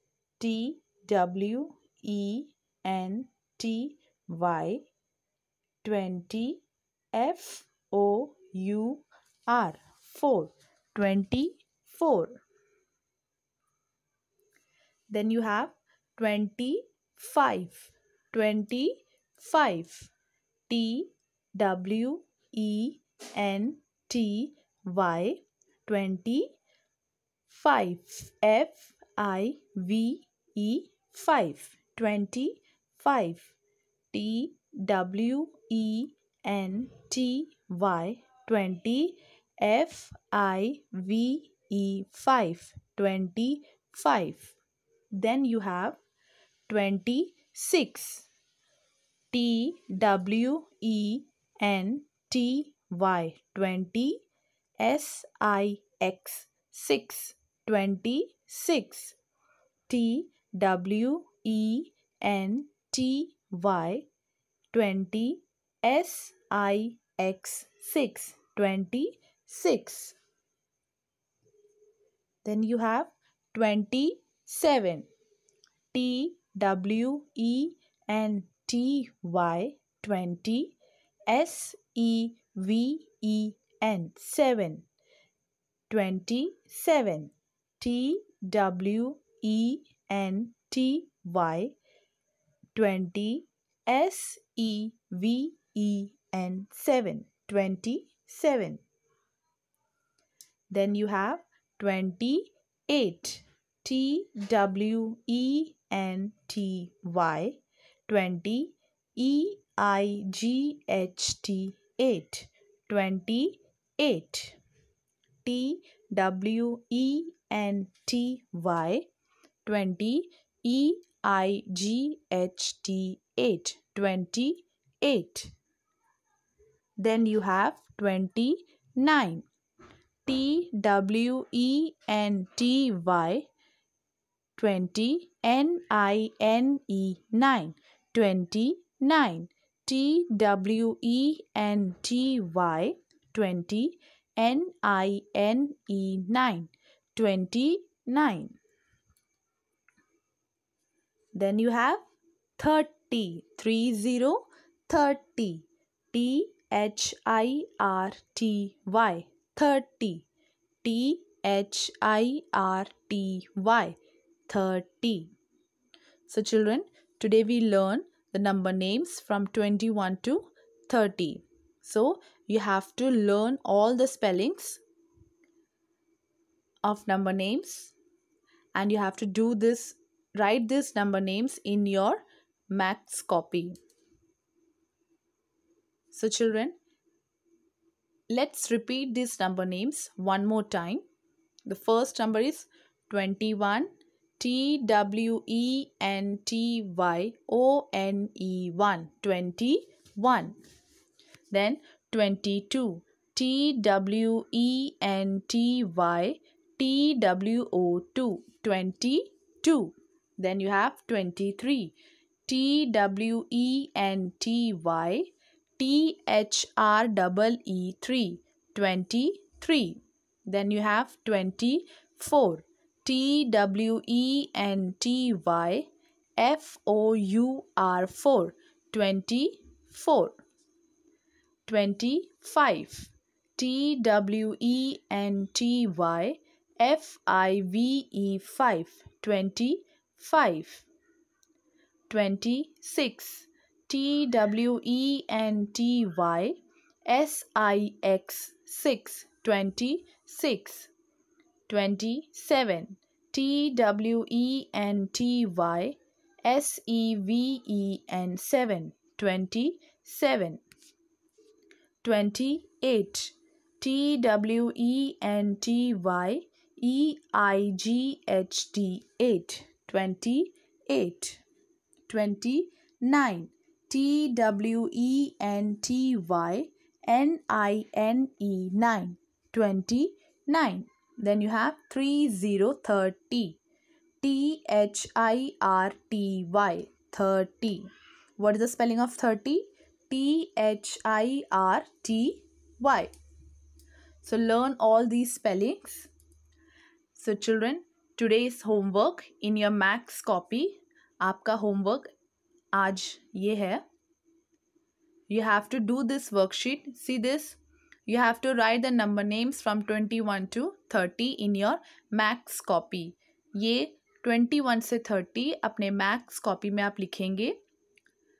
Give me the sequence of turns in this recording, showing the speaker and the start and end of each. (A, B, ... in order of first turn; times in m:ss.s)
0:00.4-0:04.8 A
0:05.8-0:12.4 A
0:15.1-0:20.1 A
0:20.7-0:26.6 A
0:27.5-0:33.5 A
0:34.1-0:44.6 A
0:45.1-0:46.0 A
0:46.7-0:48.3 A
0:49.3-0:54.2 A
0:54.8-0:59.2 A
0:59.9-1:04.1 A
1:04.7-1:10.2 A
1:12.4-1:15.1 A
1:15.9-1:20.7 A
1:21.3-1:24.8 A
1:25.9-1:31.7 A
1:32.7-1:38.8 A
1:40.7-1:54.6 A
1:55.4-1:59.1 A
1:59.6-2:05.5 A
2:07.0-2:09.4 A
2:10.2-2:13.5 A
2:14.6-2:28.6 A
2:31.3-2:32.0 A
2:32.6-2:40.3 A
2:40.8-2:44.0 A
2:44.5-2:45.3 A
2:46.3-2:54.8 A
2:56.8-2:57.9 A
2:58.7-3:03.8 A
3:06.1-3:06.8 A
3:08.3-3:11.0 A
3:11.6-3:20.6 A
3:21.5-3:31.9 A
3:32.5-3:50.4 A
3:51.6-4:00.8 A
4:02.1-4:10.9 A
4:11.7-4:20.6 A
4:22.0-4:31.4 A
4:32.1-4:43.6 A
4:44.2-4:53.1 A
4:54.2-4:56.1 A
4:57.1-5:02.1 A
5:02.7-5:03.8 A
5:05.3-5:17.6 A